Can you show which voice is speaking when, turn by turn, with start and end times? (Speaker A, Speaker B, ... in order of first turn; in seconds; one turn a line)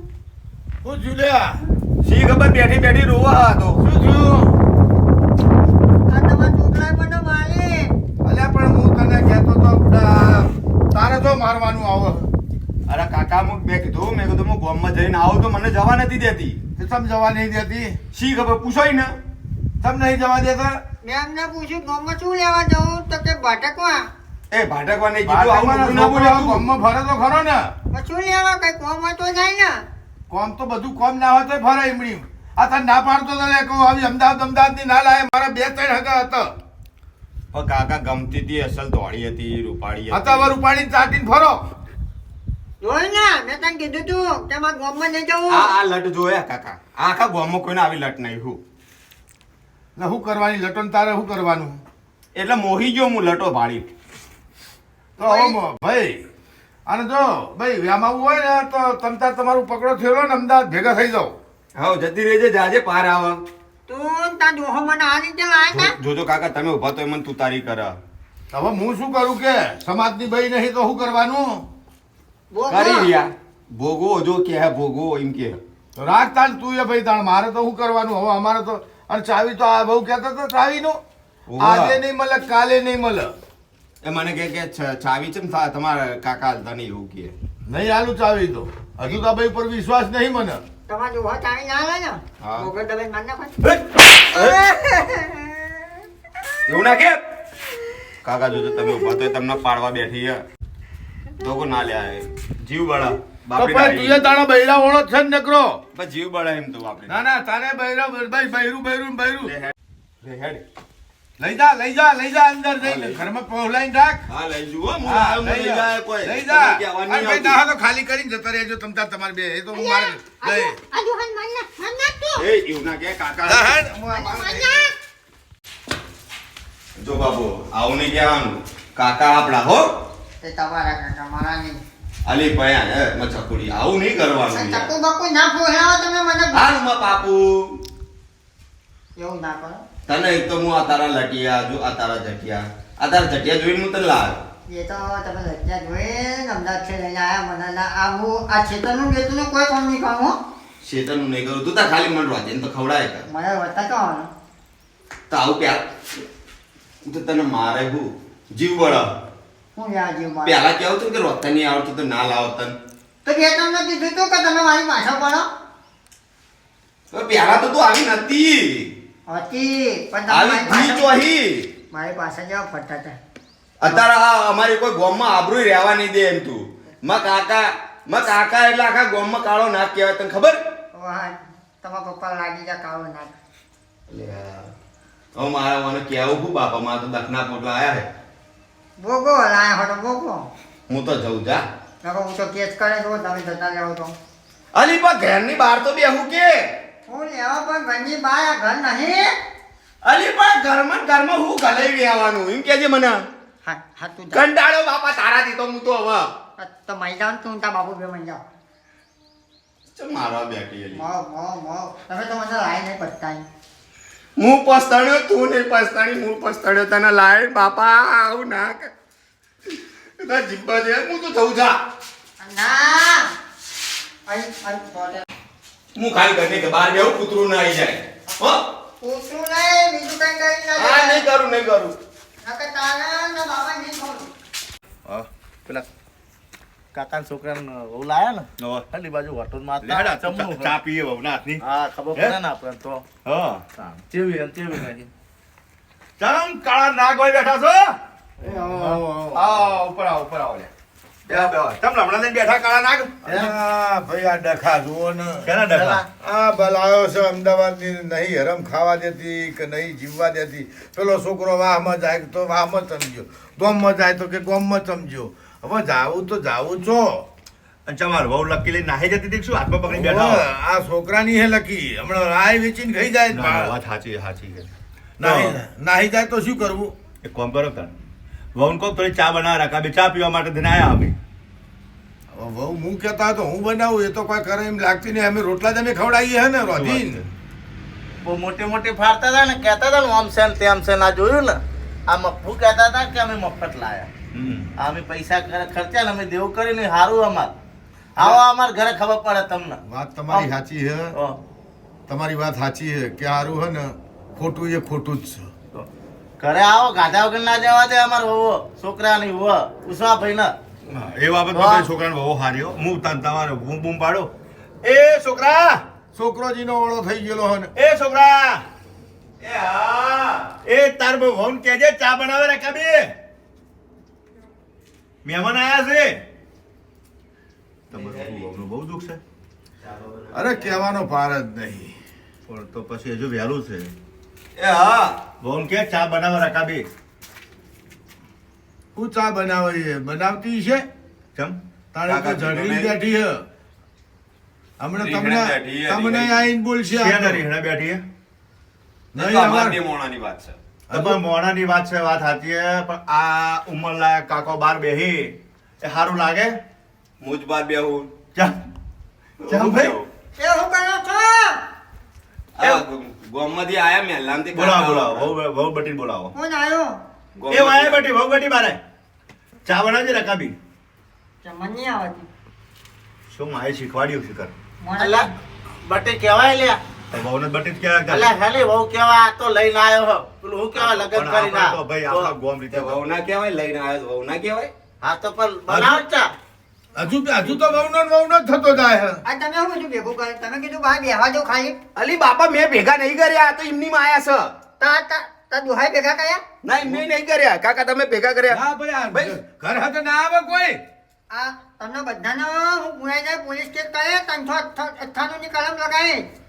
Speaker A: 0.8-1.6
Speaker B: 2.0-3.8
Speaker A: 3.8-4.5
Speaker C: 6.1-7.9
Speaker A: 8.2-12.3
Speaker B: 12.9-16.6
Speaker A: 16.8-18.0
Speaker B: 18.1-19.1
Speaker A: 19.8-20.8
Speaker C: 21.0-24.0
Speaker B: 24.5-26.6
Speaker A: 25.2-27.7
Speaker C: 27.9-29.8
Speaker A: 30.3-36.5
Speaker B: 37.5-40.5
Speaker A: 40.1-41.6
Speaker C: 42.8-45.6
Speaker B: 45.5-48.6
Speaker A: 50.0-51.8
Speaker B: 52.3-53.9
Speaker A: 55.2-56.2
Speaker C: 55.2-55.6
Speaker A: 56.9-61.3
Speaker B: 61.7-63.4
Speaker C: 63.9-65.9
Speaker B: 65.7-68.0
Speaker A: 68.5-71.6
Speaker C: 72.5-73.1
Speaker B: 72.7-75.6
Speaker A: 76.0-81.0
Speaker B: 81.5-82.0
Speaker A: 81.5-83.3
Speaker B: 84.0-87.3
Speaker A: 87.7-90.6
Speaker C: 90.9-95.9
Speaker B: 92.4-92.7
Speaker B: 96.7-97.2
Speaker B: 98.2-100.4
Speaker B: 101.4-104.2
Speaker A: 103.5-105.8
Speaker B: 105.9-107.2
Speaker A: 107.1-109.5
Speaker B: 109.4-110.6
Speaker A: 111.4-114.2
Speaker B: 112.8-113.2
Speaker B: 114.3-117.6
Speaker A: 115.0-120.8
Speaker C: 119.7-122.4
Speaker B: 122.4-123.8
Speaker A: 123.5-124.9
Speaker C: 124.1-124.9
Speaker B: 127.0-129.8
Speaker C: 130.4-131.8
Speaker B: 132.2-134.9
Speaker C: 134.5-136.7
Speaker B: 136.5-137.5
Speaker C: 139.2-139.8
Speaker B: 140.1-144.4
Speaker C: 144.7-150.3
Speaker B: 150.8-153.2
Speaker C: 153.3-154.3
Speaker B: 155.3-155.9
Speaker B: 157.0-159.1
Speaker C: 159.7-160.6
Speaker B: 160.4-162.7
Speaker C: 163.2-165.4
Speaker B: 167.1-168.9
Speaker C: 169.3-171.1
Speaker B: 170.3-171.7
Speaker C: 171.9-173.2
Speaker B: 173.8-180.6
Speaker C: 180.9-183.3
Speaker B: 184.1-184.7
Speaker B: 185.3-188.1
Speaker C: 189.0-190.5
Speaker B: 190.9-191.6
Speaker C: 192.0-194.1
Speaker B: 194.7-196.6
Speaker C: 197.1-199.3
Speaker B: 200.0-203.2
Speaker C: 203.6-204.4
Speaker B: 204.3-206.3
Speaker C: 206.6-208.4
Speaker B: 209.9-211.0
Speaker C: 210.9-213.4
Speaker B: 214.4-218.9
Speaker B: 220.2-221.7
Speaker C: 222.4-223.3
Speaker C: 224.3-225.2
Speaker B: 225.9-228.6
Speaker C: 229.0-231.3
Speaker B: 230.8-231.9
Speaker C: 232.4-234.3
Speaker D: 236.9-240.7
Speaker E: 238.6-238.8
Speaker E: 239.8-242.4
Speaker D: 241.6-243.1
Speaker E: 243.2-243.7
Speaker D: 243.7-245.1
Speaker E: 246.2-247.9
Speaker D: 248.4-249.0
Speaker A: 248.4-249.4
Speaker B: 249.4-250.7
Speaker E: 250.2-250.5
Speaker E: 251.3-253.2
Speaker D: 253.2-253.5
Speaker A: 253.2-255.5
Speaker E: 255.4-256.0
Speaker D: 255.7-256.1
Speaker A: 256.2-267.2
Speaker E: 267.9-270.5
Speaker A: 269.9-273.7
Speaker E: 273.3-274.7
Speaker A: 275.2-276.9
Speaker E: 275.2-275.6
Speaker E: 277.2-277.9
Speaker E: 278.5-281.2
Speaker A: 282.3-287.2
Speaker E: 286.7-287.3
Speaker D: 288.2-294.1
Speaker E: 294.3-294.7
Speaker D: 294.8-297.5
Speaker D: 298.2-300.5
Speaker A: 299.8-301.1
Speaker A: 302.1-305.5
Speaker D: 306.4-310.6
Speaker E: 310.9-314.3
Speaker D: 311.5-311.9
Speaker E: 314.8-315.8
Speaker A: 316.1-317.7
Speaker E: 317.8-318.6
Speaker B: 319.4-320.6
Speaker E: 320.6-323.1
Speaker E: 325.2-326.2
Speaker E: 327.9-329.2
Speaker B: 327.9-328.5
Speaker B: 329.8-330.7
Speaker A: 330.3-331.9
Speaker E: 332.5-333.9
Speaker B: 334.6-335.2
Speaker E: 335.4-336.9
Speaker A: 338.9-340.9
Speaker A: 341.9-343.4
Speaker B: 342.1-342.9
Speaker A: 344.8-347.4
Speaker B: 344.9-346.4
Speaker E: 346.9-348.0
Speaker A: 349.1-349.8
Speaker B: 349.1-350.6
Speaker A: 350.9-351.2
Speaker E: 350.9-356.6
Speaker B: 357.2-358.1
Speaker B: 359.4-360.1
Speaker E: 359.4-360.0
Speaker C: 360.4-361.6
Speaker B: 362.6-365.3
Speaker E: 364.5-366.3
Speaker C: 366.3-366.9
Speaker B: 367.4-368.1
Speaker E: 367.5-368.8
Speaker E: 369.6-370.5
Speaker C: 371.4-372.3
Speaker E: 373.3-374.5
Speaker C: 374.8-375.3
Speaker D: 375.0-375.3
Speaker D: 375.8-376.8
Speaker E: 377.1-378.3
Speaker D: 378.1-382.3
Speaker E: 380.7-383.0
Speaker B: 382.7-384.7
Speaker D: 385.0-386.3
Speaker A: 385.7-386.0
Speaker A: 386.9-389.2
Speaker C: 389.2-391.8
Speaker B: 391.9-394.5
Speaker C: 394.8-396.4
Speaker B: 396.6-398.6
Speaker A: 398.5-400.8
Speaker C: 401.3-406.2